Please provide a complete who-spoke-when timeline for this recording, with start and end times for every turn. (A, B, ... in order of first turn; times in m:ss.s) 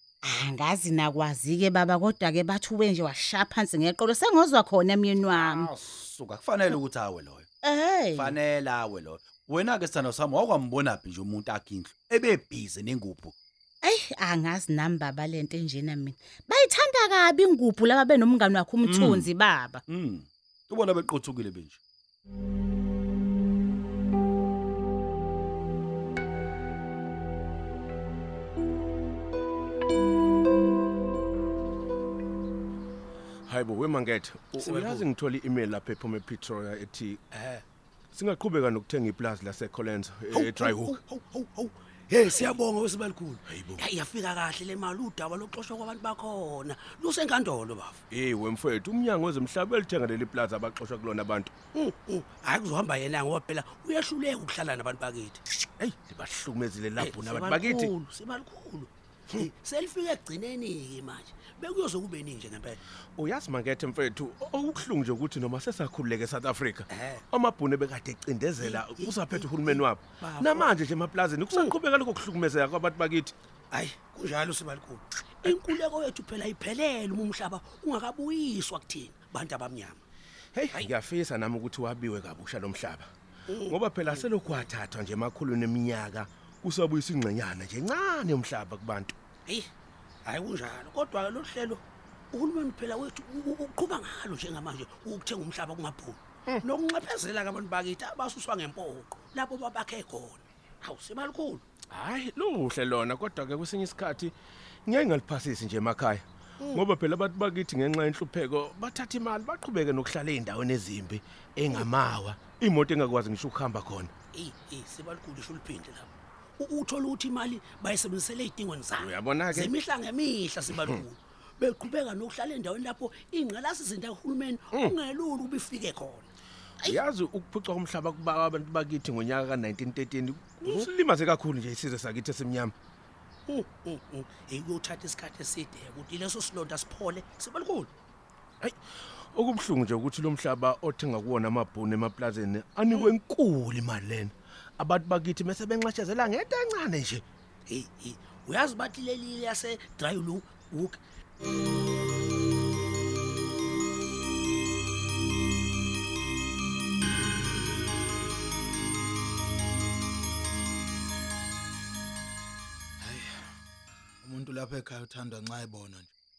0:00.2-0:05.7 A
0:05.3-0:07.5 B
0:07.6-0:08.4 A
0:08.1-0:13.4 B
0:13.8-0:19.8 A
0:18.8-0:19.3 B
0:19.9-0:21.8 B
0:33.5-0:37.2 C
0:34.6-0:35.1 D
0:37.3-0:37.6 D
0:38.1-0:41.0 C
0:40.3-0:48.0 D
0:43.5-0:43.8 C
0:48.1-0:51.5 C
0:51.7-0:55.4 D
0:55.8-0:57.9 C
0:57.0-1:02.8 D
1:03.2-1:13.3 C
1:06.9-1:07.2 D
1:08.6-1:10.7 D
1:11.5-1:11.8 D
1:13.7-1:20.0 D
1:15.4-1:15.8 C
1:20.6-1:23.1 C
1:23.5-1:24.2 D
1:23.7-1:29.1 C
1:30.2-1:41.6 D
1:41.9-1:44.3 C
1:44.9-1:54.1 C
1:54.3-2:06.3 D
1:59.0-1:59.8 C
2:06.8-2:12.7 C
2:10.6-2:10.9 D
2:13.5-2:17.9 D
2:19.3-2:27.2 C
2:27.7-2:31.0 D
2:43.0-2:43.6 E
2:44.2-2:46.1 E